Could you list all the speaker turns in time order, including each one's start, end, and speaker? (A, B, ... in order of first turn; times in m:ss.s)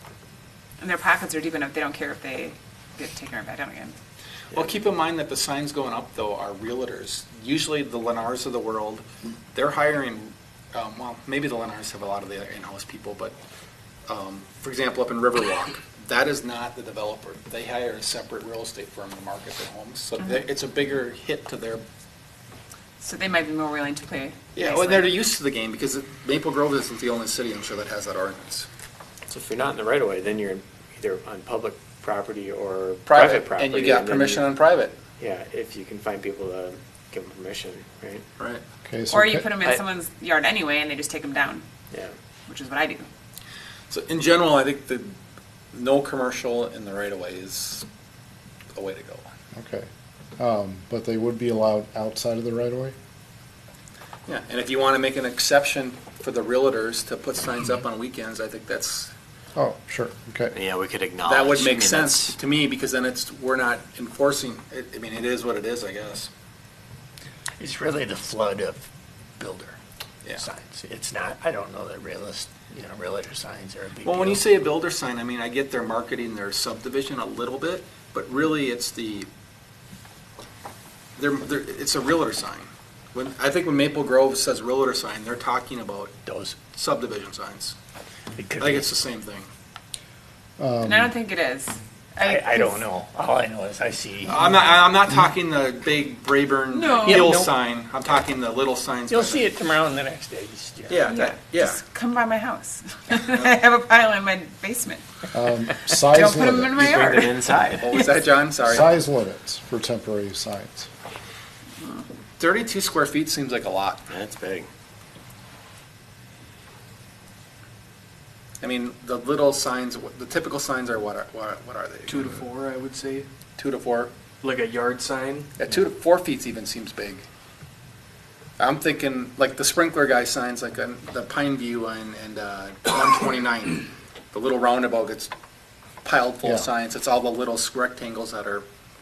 0:00.8-0:03.9 A
0:04.5-0:13.3 B
0:14.1-0:21.8 B
0:23.0-0:25.1 A
0:24.5-0:28.7 B
0:29.3-0:34.5 C
0:33.0-0:35.0 B
0:35.2-0:38.2 C
0:38.8-0:39.5 D
0:39.1-0:41.6 A
0:42.5-0:43.1 A
0:43.9-0:45.1 B
0:45.7-0:47.8 B
0:48.7-0:49.3 B
0:49.5-0:49.9 D
0:50.4-0:52.9 D
0:54.3-0:59.1 B
0:59.6-1:00.5 D
1:00.5-1:02.4 E
1:01.2-1:06.3 B
1:07.6-1:09.8 F
1:10.3-1:14.4 F
1:14.0-1:19.3 B
1:21.2-1:27.7 B
1:26.2-1:26.6 F
1:28.3-1:28.9 F
1:28.6-1:29.5 B
1:30.6-1:31.1 D
1:30.8-1:32.8 A
1:32.2-1:34.5 F
1:34.2-1:39.5 B
1:36.7-1:37.4 A
1:37.0-1:37.5 F
1:39.1-1:41.1 F
1:40.9-1:41.8 B
1:41.0-1:45.0 A
1:43.3-1:43.5 B
1:45.3-1:47.0 D
1:46.0-1:47.4 A
1:46.8-1:47.8 E
1:47.8-1:48.9 B
1:48.6-1:50.9 D
1:52.4-1:54.0 B
1:54.1-1:54.7 E
1:58.6-2:02.3 B
2:02.1-2:03.3 G
2:03.6-2:04.1 B
2:04.4-2:05.5 G
2:05.6-2:07.2 B
2:08.6-2:15.3 B
2:16.0-2:18.6 B